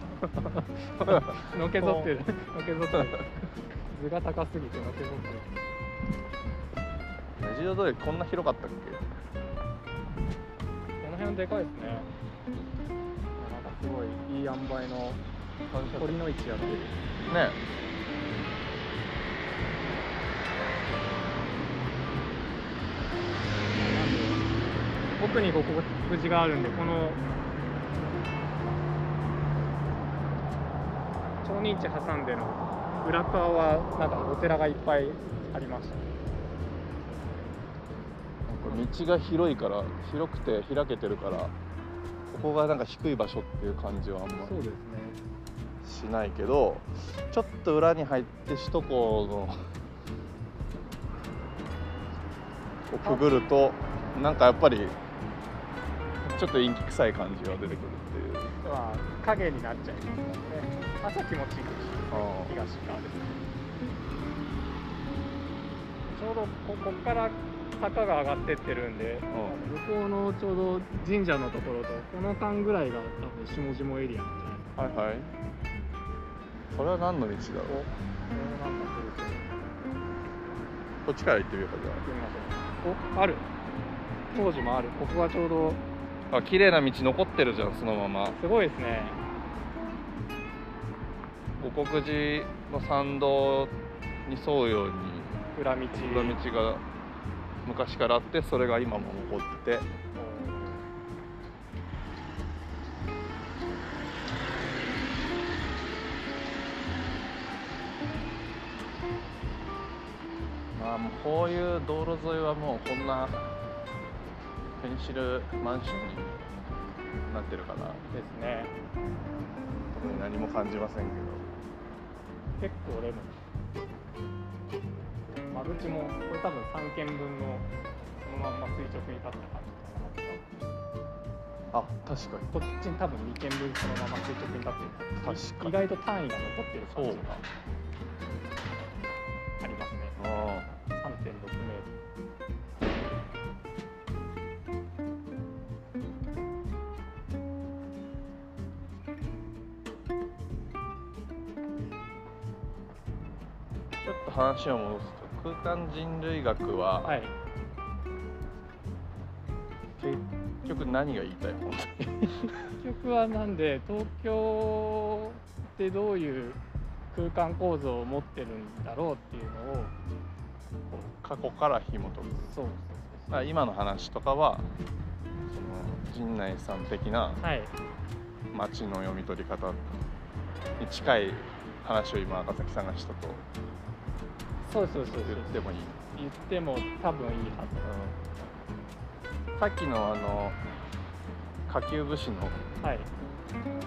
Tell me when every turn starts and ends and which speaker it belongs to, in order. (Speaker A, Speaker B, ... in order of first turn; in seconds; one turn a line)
Speaker A: 0.1-5.7
Speaker B: 1.1-2.1
Speaker B: 7.4-9.0
Speaker A: 11.0-12.1
Speaker A: 13.4-15.2
Speaker B: 15.7-16.2
Speaker A: 16.0-17.0
Speaker B: 17.3-17.6
Speaker A: 23.7-24.4
Speaker A: 25.1-27.2
Speaker A: 31.4-36.1
Speaker B: 38.5-41.5
Speaker B: 42.3-44.6
Speaker A: 44.4-45.2
Speaker B: 45.8-49.6
Speaker B: 52.9-55.0
Speaker A: 53.0-53.3
Speaker B: 56.3-58.5
Speaker A: 58.6-63.5
Speaker B: 62.1-62.5
Speaker A: 66.1-74.8
Speaker B: 69.3-69.5
Speaker B: 74.8-75.3
Speaker B: 76.7-77.8
Speaker A: 77.7-79.6
Speaker B: 81.0-82.0
Speaker A: 82.0-83.4
Speaker A: 84.3-85.8
Speaker B: 86.3-88.4
Speaker A: 88.4-89.2
Speaker B: 91.6-93.7
Speaker B: 94.2-95.4
Speaker A: 95.5-96.4
Speaker B: 95.9-96.8
Speaker B: 97.6-99.9
Speaker A: 100.1-100.8
Speaker B: 110.7-113.5
Speaker B: 114.8-116.4
Speaker B: 117.2-118.0
Speaker A: 118.1-118.7
Speaker B: 119.9-121.5
Speaker A: 122.6-123.4
Speaker A: 125.3-130.4
Speaker B: 131.7-132.5
Speaker A: 132.5-137.4
Speaker B: 135.2-135.7
Speaker B: 136.9-137.4
Speaker A: 139.6-140.2
Speaker B: 140.2-140.7
Speaker A: 140.8-141.9
Speaker B: 154.0-157.1
Speaker A: 157.0-157.3
Speaker B: 160.0-162.6
Speaker A: 162.7-166.6
Speaker A: 167.1-169.9
Speaker B: 170.9-172.5
Speaker A: 172.5-173.4
Speaker B: 173.3-174.7
Speaker B: 175.5-177.4
Speaker A: 177.4-177.7
Speaker B: 178.5-180.0
Speaker B: 180.8-183.4
Speaker A: 184.6-185.6
Speaker B: 185.2-186.0
Speaker A: 186.1-187.9
Speaker B: 187.8-188.2
Speaker B: 189.6-190.6
Speaker B: 191.7-192.6
Speaker A: 192.8-193.1